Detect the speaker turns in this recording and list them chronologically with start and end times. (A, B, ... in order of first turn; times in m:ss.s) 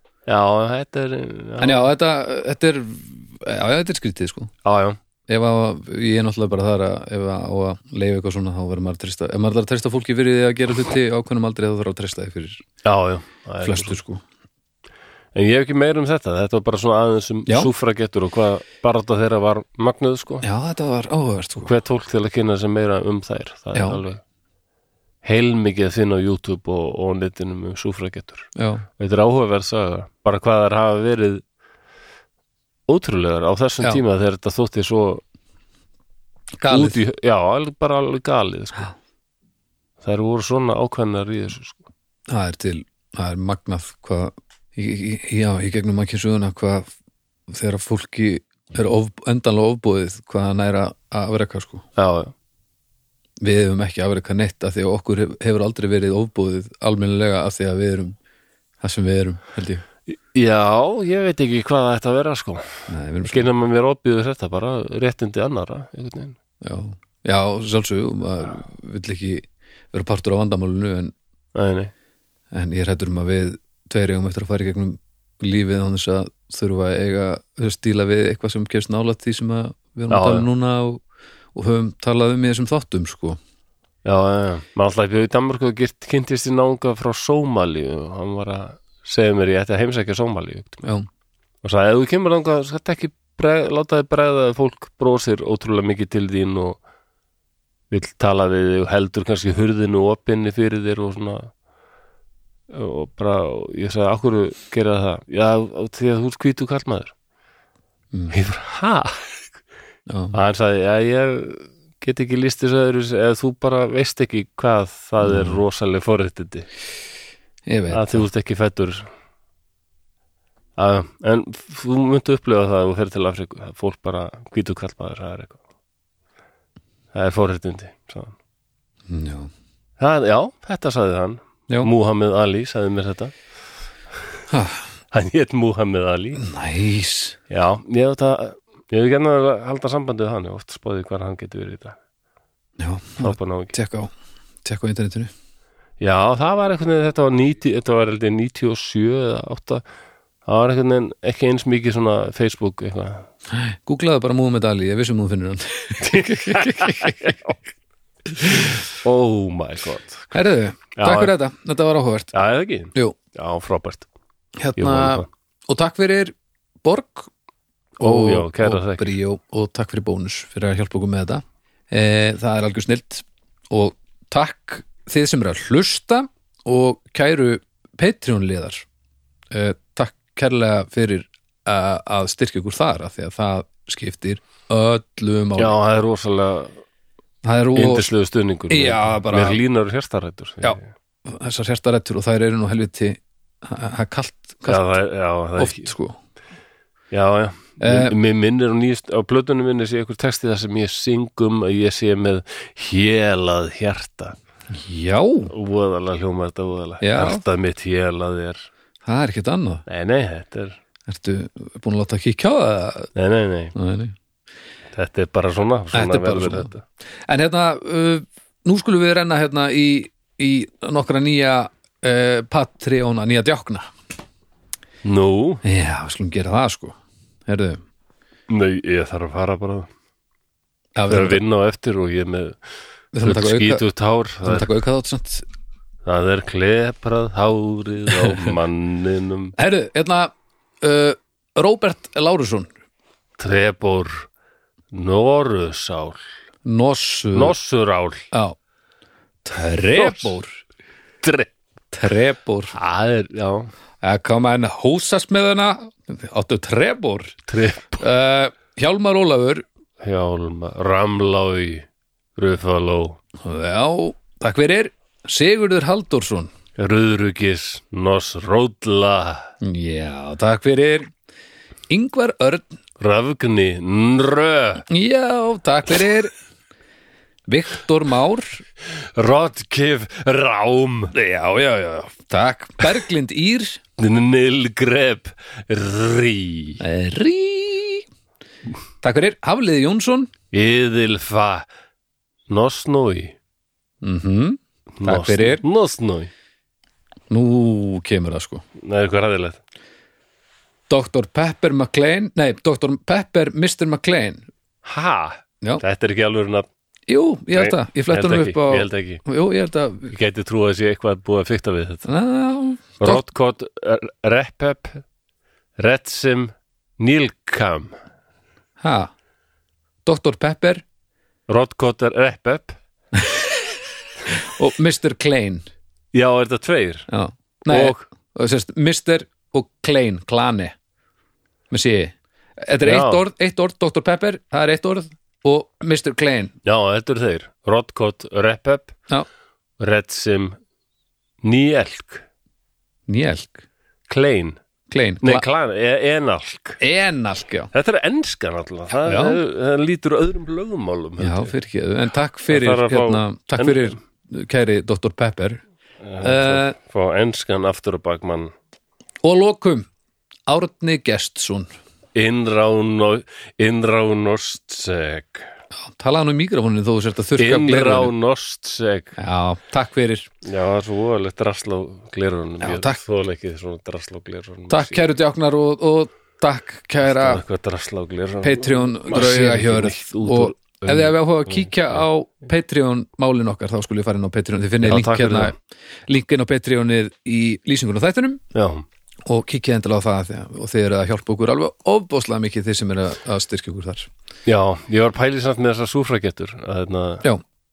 0:00.3-0:01.9 A
0:01.6-0:04.5 B
0:04.6-0:05.0 A
0:05.3-0:12.6 B
0:12.8-0:14.0 A
0:13.6-0:14.2 B
0:15.3-0:20.4 A
0:20.4-0:21.7 B
0:21.6-0:24.2 A
0:23.7-0:24.0 B
0:25.2-0:31.4 A
0:28.6-0:28.8 B
0:32.9-0:35.2 A
0:36.6-0:37.0 B
0:36.7-0:38.9 A
0:40.0-0:41.8 A
0:42.3-0:46.9 B
0:47.5-0:51.8 B
0:52.0-0:52.3 A
0:53.4-0:58.1 B
0:58.8-0:59.8 B
1:00.1-1:06.4 A
1:02.9-1:03.5 B
1:06.6-1:11.1 B
1:11.5-1:11.9 A
1:12.5-1:21.0 B
1:20.1-1:20.4 A
1:21.5-1:23.4 B
1:24.0-1:30.8 A
1:31.6-1:36.8 A
1:37.9-1:41.5 A
1:42.7-1:47.1 A
1:48.3-1:49.2 A
1:50.1-1:50.3 B
1:50.3-1:56.7 A
1:55.2-1:55.6 B
1:57.7-1:58.2 B
1:57.9-1:59.1 A
2:00.8-2:05.6 A
2:07.1-2:08.3 A
2:09.1-2:09.5 B
2:10.0-2:13.3 A
2:14.5-2:14.8 B
2:15.1-2:16.4 A
2:16.4-2:17.4 B
2:17.5-2:22.0 A
2:22.8-2:24.1 B
2:23.2-2:23.7 A
2:24.6-2:25.3 B
2:26.0-2:29.8 A
2:30.4-2:33.3 A
2:33.5-2:37.4 B
2:36.0-2:37.6 A
2:38.4-2:38.8 B
2:38.6-2:40.4 A
2:40.3-2:42.3 B
2:41.0-2:41.3 A
2:42.3-2:44.1 A
2:44.6-2:47.3 B
2:44.8-2:45.3 A
2:48.0-2:49.1 A
2:48.0-2:58.8 B
2:59.5-3:05.7 B
3:05.6-3:06.8 A
3:07.4-3:08.1 B
3:07.7-3:10.9 A
3:08.7-3:09.6 B
3:10.6-3:14.9 B
3:14.7-3:15.9 A
3:15.6-3:16.2 B
3:17.1-3:24.4 A
3:17.8-3:18.1 B
3:24.7-3:25.5 B
3:25.5-3:28.7 A
3:27.0-3:27.4 B
3:29.0-3:29.8 B
3:29.9-3:30.8 A
3:31.1-3:33.1 B
3:33.1-3:33.7 A
3:33.7-3:34.1 B
3:34.9-3:36.8 A
3:35.9-3:36.7 B
3:37.2-3:43.8 B
3:45.0-3:45.6 A
3:45.6-3:47.8 B
3:48.5-3:49.9 A
3:50.9-3:51.4 B
3:51.1-3:52.6 A
3:53.1-3:53.8 B
3:53.2-3:54.7 A
3:54.4-3:55.4 B
3:56.0-3:59.5 A
3:58.1-3:58.5 B
3:59.6-4:02.7 B
4:03.4-4:04.3 A
4:04.9-4:06.2 A
4:06.6-4:07.5 B
4:07.3-4:08.3 A
4:08.3-4:08.6 B
4:09.4-4:10.6 B
4:09.9-4:10.3 A
4:11.2-4:11.5 A
4:11.9-4:12.7 B
4:12.7-4:13.7 A
4:14.0-4:17.4 B
4:17.5-4:18.0 A
4:18.0-4:19.6 B
4:20.0-4:23.2 A
4:23.4-4:26.5 B
4:26.8-4:29.5 A
4:29.6-4:31.1 B
4:31.9-4:32.8 B
4:33.0-4:34.8 A
4:34.8-4:36.3 B
4:37.5-4:38.6 B
4:39.0-4:41.1 A
4:41.1-4:43.8 B
4:44.0-4:46.8 A
4:46.8-4:48.0 B
4:49.0-4:50.3 B
4:50.5-4:51.6 A
4:52.5-4:53.4 A
4:54.0-4:55.6 B
4:55.0-4:56.3 A
4:57.3-4:58.6 B
4:58.8-4:59.6 A
5:00.9-5:04.4 B
5:04.8-5:06.7 A
5:07.1-5:10.1 B
5:07.5-5:09.2 A
5:10.1-5:12.0 A
5:12.0-5:13.2 B
5:13.0-5:15.0 A
5:15.8-5:18.0 A
5:18.8-5:19.1 B
5:20.0-5:20.8 B
5:21.5-5:22.8 A
5:23.1-5:23.8 B
5:24.3-5:25.6 B
5:26.1-5:27.1 A
5:27.1-5:30.7 B
5:27.7-5:28.0 A
5:31.7-5:36.5 B
5:32.8-5:33.2 A
5:36.6-5:38.9 A
5:39.8-5:40.6 A
5:41.4-5:42.2 A
5:43.1-5:43.6 B
5:44.1-5:44.6 A
5:44.9-5:45.4 B
5:45.2-5:46.8 A
5:46.8-5:47.7 B
5:47.7-5:51.5 A
5:49.0-5:49.4 B
5:51.2-5:55.6 B
5:52.5-5:54.0 A
5:56.0-5:58.5 A
5:56.2-5:56.8 B
5:59.2-5:59.9 B
6:00.5-6:01.7 B
6:02.1-6:05.5 A
6:05.7-6:08.1 B
6:07.4-6:09.2 A
6:09.2-6:10.3 B
6:10.4-6:15.0 A
6:12.6-6:13.0 B
6:14.7-6:17.4 B
6:17.0-6:22.0 A
6:18.4-6:25.5 B
6:24.8-6:25.5 A
6:26.1-6:28.4 B
6:28.5-6:28.8 A
6:29.2-6:34.1 B
6:34.4-6:37.3 A